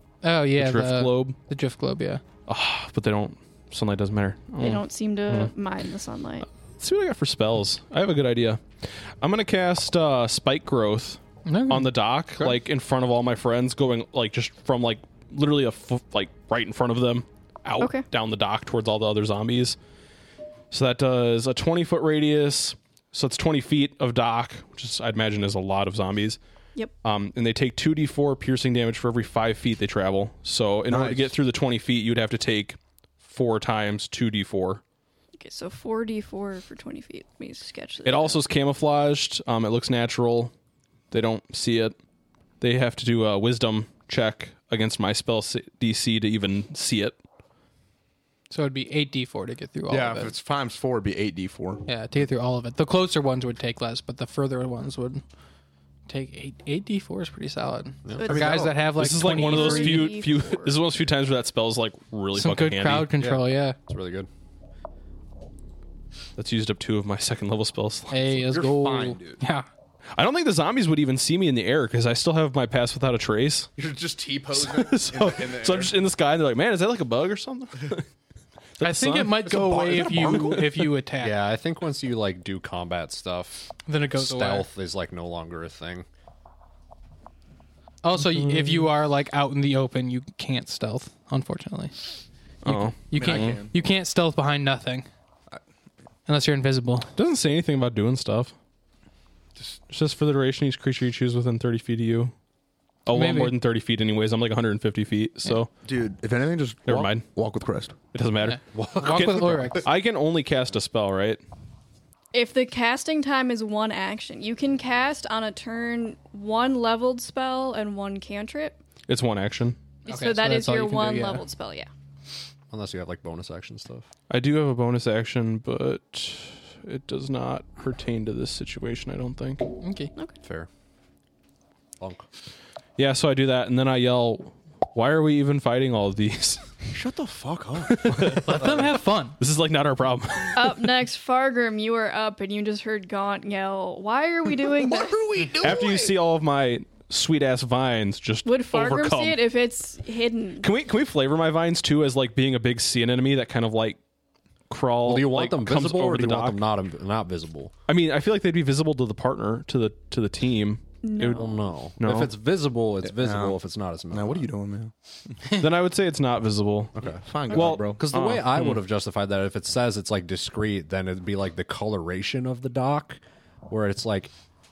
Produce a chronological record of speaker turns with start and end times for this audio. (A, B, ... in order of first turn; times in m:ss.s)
0:00.2-0:02.2 A
0:00.5-0:01.4 B
0:02.5-0:05.5 B
0:04.6-0:06.4 C
0:06.8-0:19.8 B
0:11.4-0:12.5 A
0:17.8-0:18.0 C
0:20.7-0:26.4 B
0:27.0-0:34.8 B
0:30.9-0:31.3 D
0:35.4-0:38.4 C
0:38.0-0:40.5 B
0:41.1-0:42.0 B
0:42.6-0:47.2 B
0:48.5-0:50.3 A
0:49.9-0:51.8 D
0:51.8-0:55.2 A
0:56.1-1:00.2 A
0:58.0-0:58.3 E
0:58.2-0:58.7 C
0:58.3-0:58.7 D
0:58.9-1:03.1 B
0:59.3-1:00.7 C
1:02.3-1:03.8 A
1:03.2-1:04.3 E
1:06.4-1:08.3 B
1:08.1-1:09.6 A
1:08.5-1:09.4 D
1:10.2-1:13.7 B
1:13.8-1:15.9 D
1:14.5-1:18.0 B
1:18.8-1:19.4 B
1:18.8-1:21.3 A
1:19.4-1:20.7 D
1:20.2-1:20.6 B
1:21.2-1:26.0 E
1:23.8-1:24.6 A
1:28.0-1:32.1 A
1:28.2-1:28.9 B
1:32.6-1:33.6 B
1:32.7-1:35.1 A
1:33.1-1:33.7 D
1:36.3-1:37.1 A
1:37.2-1:38.5 B
1:39.9-1:42.3 B
1:43.0-1:45.7 B
1:43.1-1:43.5 A
1:45.8-1:48.0 D
1:46.9-1:47.3 B
1:48.1-1:51.4 B
1:48.4-1:49.9 A
1:48.7-1:49.7 E
1:52.3-1:58.8 C
1:59.1-1:59.8 B
2:00.0-2:01.9 C
2:00.1-2:01.4 A
2:02.7-2:04.1 E
2:04.3-2:09.7 B
2:09.8-2:10.1 A
2:10.4-2:10.7 E
2:12.0-2:12.2 E
2:13.0-2:16.7 B
2:16.9-2:18.9 D
2:17.9-2:20.8 B
2:18.3-2:19.4 A
2:20.5-2:25.4 C
2:24.8-2:26.1 D
2:25.6-2:29.4 B
2:28.4-2:30.7 C
2:30.6-2:34.0 B
2:34.7-2:36.6 B
2:35.0-2:37.7 E
2:37.9-2:41.4 B
2:41.0-2:41.7 C
2:41.2-2:44.5 E
2:42.0-2:42.3 B
2:43.0-2:44.9 D
2:45.5-2:47.0 B
2:46.9-2:54.3 E
2:47.0-2:48.0 D
2:47.5-2:48.8 B